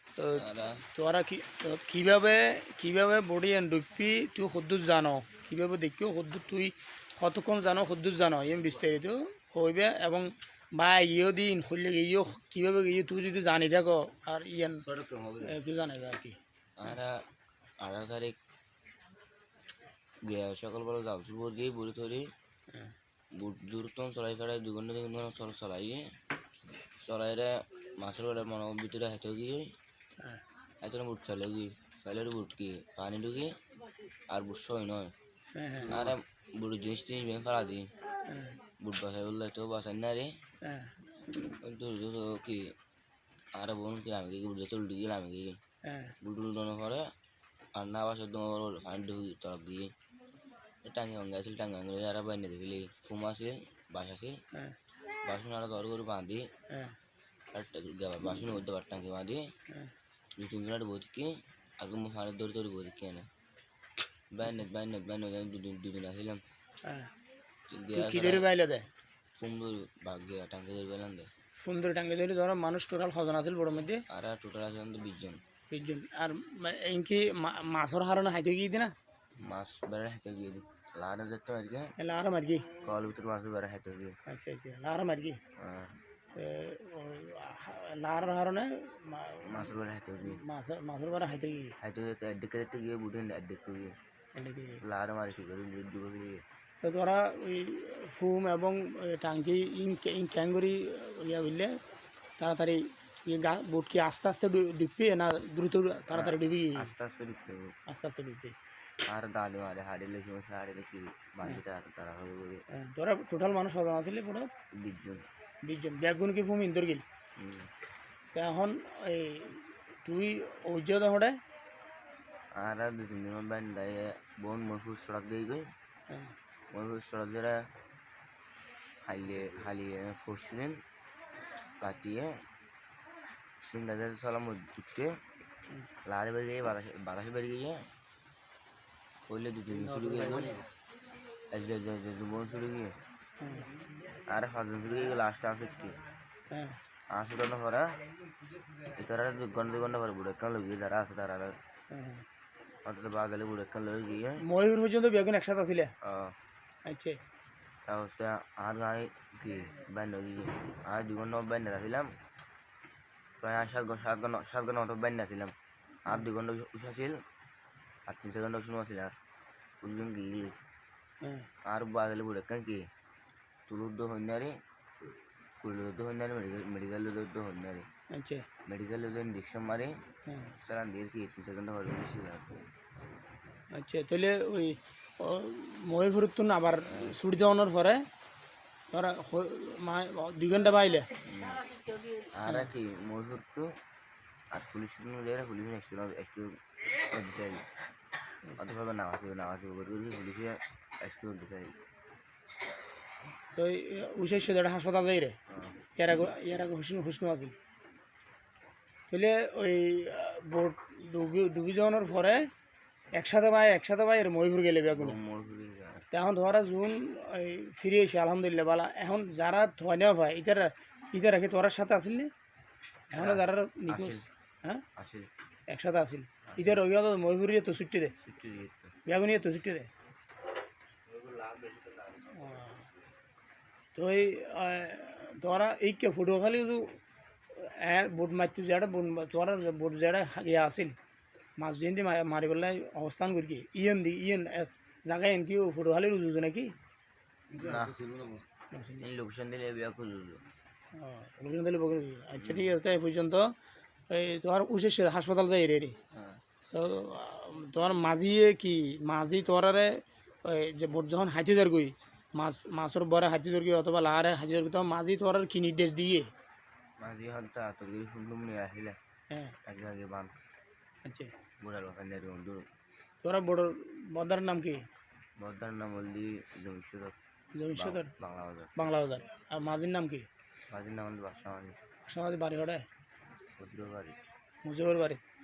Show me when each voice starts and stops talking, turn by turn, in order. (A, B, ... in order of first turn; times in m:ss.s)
0:00.2-0:16.4 A
0:00.3-0:00.8 B
0:15.0-0:15.3 B
0:16.8-0:17.2 B
0:17.8-0:18.4 B
0:20.2-0:22.3 B
0:23.4-0:26.1 B
0:27.0-0:29.7 B
0:30.8-0:33.6 B
0:34.3-0:35.1 B
0:35.5-0:36.0 A
0:35.8-0:37.9 B
0:38.2-0:38.6 A
0:38.8-0:40.4 B
0:40.6-0:40.9 A
0:41.5-0:42.7 B
0:43.5-0:45.6 B
0:45.8-0:46.2 A
0:46.2-0:47.1 B
0:47.8-0:49.9 B
0:50.8-0:54.4 B
0:55.1-0:56.5 B
0:56.7-0:57.0 A
0:57.5-0:59.4 B
1:00.4-1:03.3 B
1:04.3-1:06.4 B
1:06.8-1:07.1 A
1:07.7-1:08.5 B
1:07.9-1:08.9 A
1:09.3-1:11.3 B
1:11.6-1:14.0 A
1:14.1-1:15.4 B
1:15.7-1:18.9 A
1:19.4-1:21.9 B
1:22.0-1:22.7 A
1:22.8-1:24.2 B
1:24.3-1:25.4 A
1:25.6-1:26.0 B
1:26.4-1:31.8 A
1:29.4-1:30.4 B
1:31.8-1:34.0 B
1:34.4-1:34.8 A
1:34.8-1:36.4 B
1:36.8-1:41.8 A
1:42.4-1:46.9 A
1:46.1-1:47.8 B
1:47.9-1:48.6 A
1:49.0-1:52.6 B
1:52.7-1:54.5 A
1:54.8-1:55.3 B
1:55.6-1:57.0 A
1:57.4-1:57.7 B
1:58.3-2:01.4 A
2:02.6-2:05.7 B
2:06.7-2:07.6 B
2:09.0-2:10.8 B
2:11.8-2:12.4 B
2:13.6-2:15.2 B
2:16.0-2:17.8 B
2:19.3-2:20.6 B
2:21.5-2:23.0 B
2:23.4-2:23.7 A
2:24.1-2:26.0 B
2:26.5-2:26.8 A
2:27.1-2:28.1 B
2:28.8-2:31.6 B
2:31.9-2:32.2 A
2:32.8-2:34.4 B
2:34.4-2:35.9 A
2:36.0-2:36.4 B
2:36.9-2:37.2 A
2:37.9-2:42.1 B
2:43.4-2:47.2 B
2:48.1-2:49.2 B
2:49.8-2:50.6 B
2:51.2-2:51.5 A
2:51.6-2:52.9 B
2:53.7-2:54.6 B
2:55.6-2:57.9 B
2:58.1-2:58.5 A
2:58.7-3:00.0 B
3:00.3-3:00.5 A
3:00.6-3:02.6 B
3:03.7-3:08.0 A
3:08.9-3:11.2 A
3:11.2-3:11.8 B
3:12.3-3:13.8 B
3:14.5-3:17.7 B
3:18.6-3:21.8 B
3:23.5-3:25.4 A
3:25.5-3:25.8 B
3:26.0-3:27.6 A
3:29.1-3:32.5 A
3:33.1-3:35.2 A
3:34.9-3:36.1 B
3:36.1-3:42.3 A
3:43.1-3:44.8 A
3:43.2-3:44.3 B
3:45.0-3:45.3 B
3:45.7-3:48.1 A
3:46.5-3:46.8 B
3:48.2-3:49.0 B
3:49.1-3:49.9 A
3:51.1-3:52.3 B
3:52.3-3:52.9 A
3:54.0-3:57.0 A
3:57.5-4:01.0 A
4:01.6-4:06.7 A
4:07.5-4:08.4 B
4:08.7-4:09.0 A
4:09.0-4:10.4 B
4:10.9-4:13.5 A
4:12.4-4:12.8 B
4:14.1-4:16.0 A
4:16.1-4:16.4 B
4:16.7-4:26.3 A
4:27.0-4:29.0 B
4:29.3-4:29.6 A
4:29.6-4:30.4 B
4:31.0-4:31.3 A
4:31.6-4:32.7 B
4:33.2-4:34.9 A
4:35.4-4:37.2 B
4:37.5-4:38.1 A
4:37.8-4:38.8 B
4:38.8-4:40.3 A
4:40.7-4:41.8 B
4:42.1-4:42.8 A
4:43.6-4:44.2 B
4:44.6-4:45.2 A